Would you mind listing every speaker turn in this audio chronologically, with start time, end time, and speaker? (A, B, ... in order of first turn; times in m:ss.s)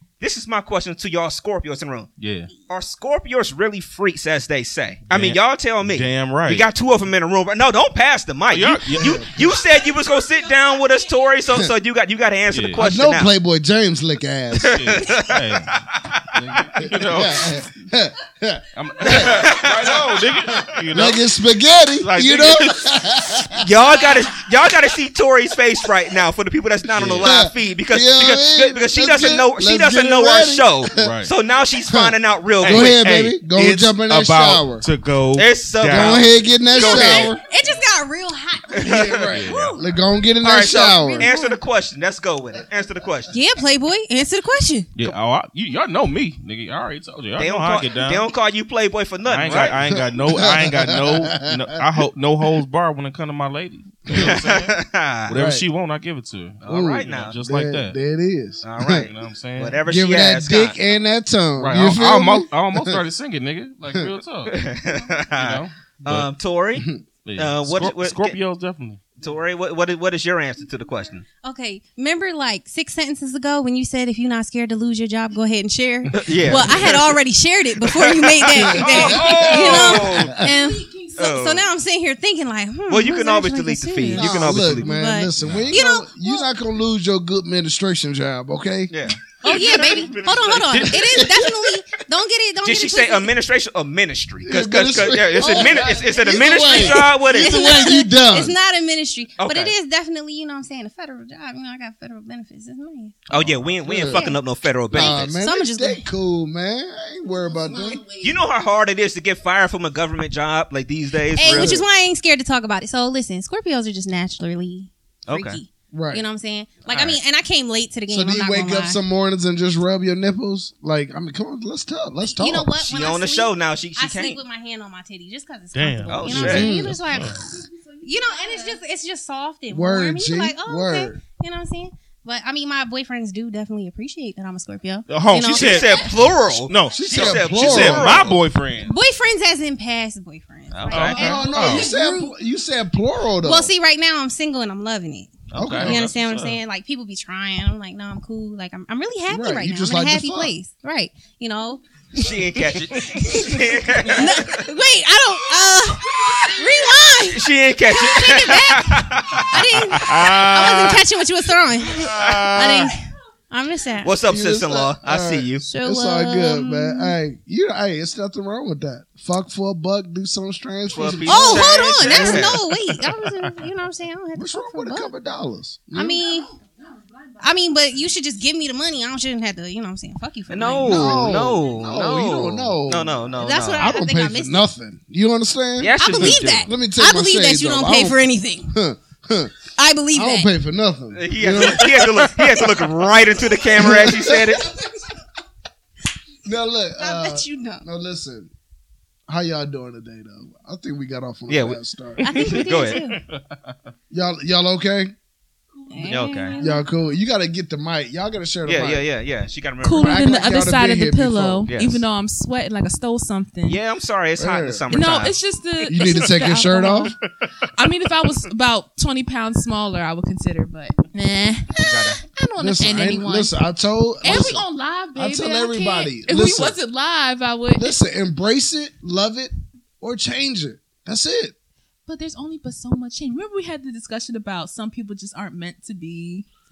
0:00.2-0:02.1 A
0:02.2-0:02.5 B
0:02.7-0:13.3 A
0:05.1-0:06.7 B
0:08.5-0:09.4 B
0:09.0-0:09.3 C
0:12.5-0:12.8 B
0:12.8-0:15.0 C
0:14.6-0:16.2 A
0:14.6-0:15.8 B
0:16.3-0:17.6 B
0:16.8-0:19.3 C
0:18.8-0:21.2 B
0:19.1-0:20.2 A
0:20.9-0:23.6 C
0:22.0-0:23.0 B
0:23.6-0:33.0 A
0:26.9-0:27.3 B
0:27.2-0:31.1 C
0:31.0-0:31.3 B
0:31.9-0:34.9 C
0:32.6-0:36.3 B
0:35.4-0:37.4 A
0:35.8-0:37.4 C
0:36.7-0:39.8 D
0:38.7-0:39.6 A
0:38.8-0:41.3 C
0:39.3-0:39.8 B
0:40.4-0:43.3 A
0:40.7-0:41.6 D
0:43.3-0:44.9 D
0:45.0-0:48.2 B
0:47.4-0:50.0 A
0:49.3-0:54.7 B
0:49.8-0:51.5 C
0:54.1-0:54.4 C
0:54.2-0:55.3 A
0:55.3-0:58.0 B
0:55.3-0:55.6 C
0:56.6-0:57.4 A
0:56.7-0:59.1 C
0:58.6-1:00.8 A
0:59.0-0:59.8 B
0:59.9-1:03.0 C
1:01.6-1:04.6 B
1:04.5-1:08.4 A
1:05.3-1:06.3 B
1:06.8-1:07.0 C
1:07.2-1:09.0 B
1:09.2-1:11.3 A
1:11.4-1:26.5 D
1:16.1-1:17.1 A
1:17.8-1:20.4 A
1:18.6-1:20.5 C
1:18.6-1:20.0 B
1:20.4-1:21.2 E
1:21.2-1:21.7 A
1:22.9-1:24.9 A
1:24.2-1:28.9 C
1:25.4-1:25.8 B
1:28.9-1:29.2 A
1:29.4-1:33.3 D
1:29.4-1:30.9 B
1:30.7-1:31.0 A
1:30.9-1:31.5 C
1:32.6-1:37.9 A
1:34.4-1:38.6 C
1:35.4-1:43.2 D
1:39.4-1:39.7 A
1:43.3-1:45.4 A
1:43.4-1:43.6 B
1:43.9-1:44.2 C
1:43.9-1:44.4 D
1:44.9-1:48.0 C
1:45.0-1:46.0 D
1:47.6-1:47.9 E
1:48.2-1:51.8 A
1:51.3-1:59.0 D
1:51.5-1:51.8 C
1:55.3-1:55.6 A
1:55.9-1:56.2 C
1:56.8-1:57.2 A
1:58.1-2:02.9 C
2:02.2-2:16.4 D
2:02.9-2:04.4 A
2:05.7-2:07.5 B
2:06.1-2:06.7 A
2:06.3-2:07.0 C
2:08.0-2:08.7 E
2:09.7-2:11.2 C
2:15.1-2:16.0 B
2:15.3-2:18.4 A
2:16.7-2:19.0 B
2:17.0-2:18.3 C
2:18.8-2:22.3 D
2:20.7-2:21.3 A
2:20.8-2:21.9 B
2:21.1-2:23.7 C
2:21.2-2:22.2 E
2:23.4-2:32.3 D
2:25.5-2:26.6 B
2:25.6-2:26.1 C
2:29.3-2:30.6 C
2:32.1-2:34.5 A
2:32.8-2:44.2 D
2:37.3-2:40.8 A
2:39.9-2:41.0 B
2:41.9-2:43.0 B
2:42.0-2:42.9 A
2:44.0-2:45.7 A
2:44.2-2:52.5 C
2:45.6-2:47.2 D
2:50.9-2:52.6 A
2:51.3-2:55.1 D
2:53.0-2:53.5 B
2:54.4-2:56.2 C
2:55.9-2:56.6 D
2:57.4-3:01.5 D
3:00.5-3:04.0 A
3:00.8-3:09.5 C
3:03.4-3:04.7 D
3:05.8-3:06.7 A
3:06.0-3:08.8 D
3:09.8-3:10.5 D
3:10.1-3:12.2 C
3:11.1-3:14.7 A
3:13.8-3:14.6 C
3:16.4-3:18.5 C
3:17.0-3:17.8 D
3:19.3-3:22.3 C
3:21.5-3:23.0 A
3:22.2-3:23.2 D
3:23.0-3:23.8 B
3:24.1-3:25.2 C
3:25.9-3:26.8 D
3:25.9-3:26.7 E
3:26.0-3:26.6 A
3:26.6-3:29.0 C
3:28.6-3:30.3 A
3:29.8-3:33.8 E
3:30.0-3:31.7 C
3:31.7-3:32.0 A
3:33.6-3:35.4 A
3:34.4-3:34.8 C
3:34.9-3:37.2 E
3:35.9-3:37.1 C
3:37.7-3:43.5 E
3:41.8-3:42.2 A
3:42.6-3:44.6 C
3:44.2-3:48.0 E
3:45.2-3:46.8 C
3:47.8-3:51.5 C
3:52.1-3:56.5 E